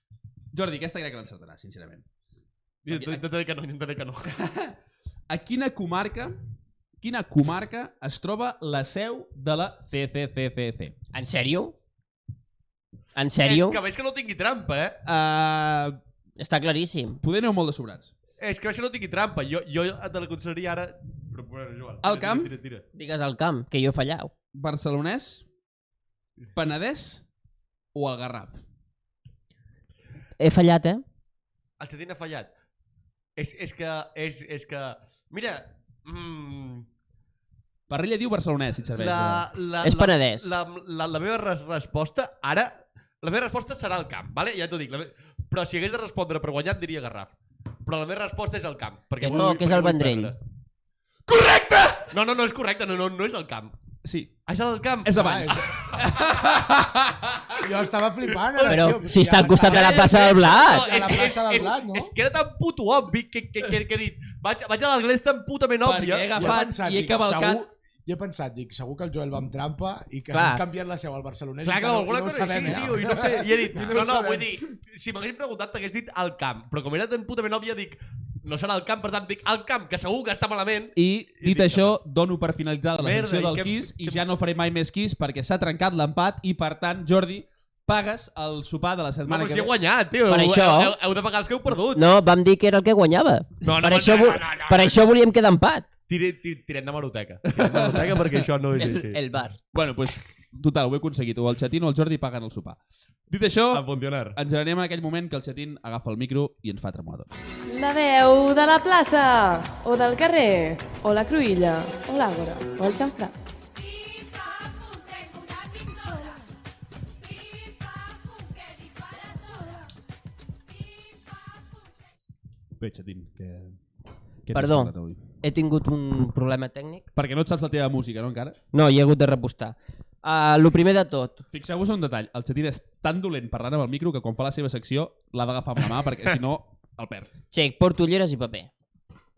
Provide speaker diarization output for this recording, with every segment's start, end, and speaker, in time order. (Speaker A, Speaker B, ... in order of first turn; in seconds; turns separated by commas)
Speaker A: 0.5-2.0, Speaker B: 2.8-4.4, Speaker A: 2.9-3.2, Speaker A: 4.3-4.7, Speaker A: 5.3-6.4, Speaker A: 7.0-10.9, Speaker C: 11.1-11.7, Speaker C: 13.1-13.8, Speaker B: 13.4-15.0, Speaker A: 15.0-16.0, Speaker C: 16.4-17.2, Speaker A: 17.2-18.1, Speaker B: 18.4-22.8, Speaker A: 22.0-22.5, Speaker C: 22.9-24.3, Speaker A: 24.5-25.4, Speaker A: 26.5-27.2, Speaker A: 27.9-28.6, Speaker C: 30.4-31.0, Speaker B: 31.8-32.5, Speaker B: 33.4-36.9, Speaker A: 37.9-39.5, Speaker B: 39.0-50.4, Speaker C: 39.8-40.5, Speaker C: 49.2-50.3, Speaker A: 51.3-52.1, Speaker B: 52.1-53.7, Speaker A: 54.0-54.3, Speaker B: 54.5-55.5, Speaker A: 55.0-57.6, Speaker D: 55.1-55.7, Speaker D: 57.6-62.1, Speaker C: 58.6-60.9, Speaker B: 59.4-66.5, Speaker A: 65.8-67.7, Speaker D: 66.3-74.6, Speaker C: 70.3-70.6, Speaker B: 71.6-82.0, Speaker A: 72.6-72.9, Speaker A: 81.0-89.7, Speaker B: 83.0-84.2, Speaker B: 89.3-92.0, Speaker C: 90.3-91.0, Speaker C: 91.9-95.9, Speaker B: 93.6-95.0, Speaker B: 96.1-99.2, Speaker A: 97.5-98.5, Speaker C: 98.8-99.6, Speaker A: 99.7-107.3, Speaker B: 103.7-104.4, Speaker E: 107.7-113.3, Speaker A: 122.8-123.8, Speaker A: 124.4-125.2, Speaker C: 124.5-127.1, Speaker A: 127.2-128.6, Speaker C: 128.7-131.4, Speaker A: 131.5-137.3, Speaker C: 137.5-138.7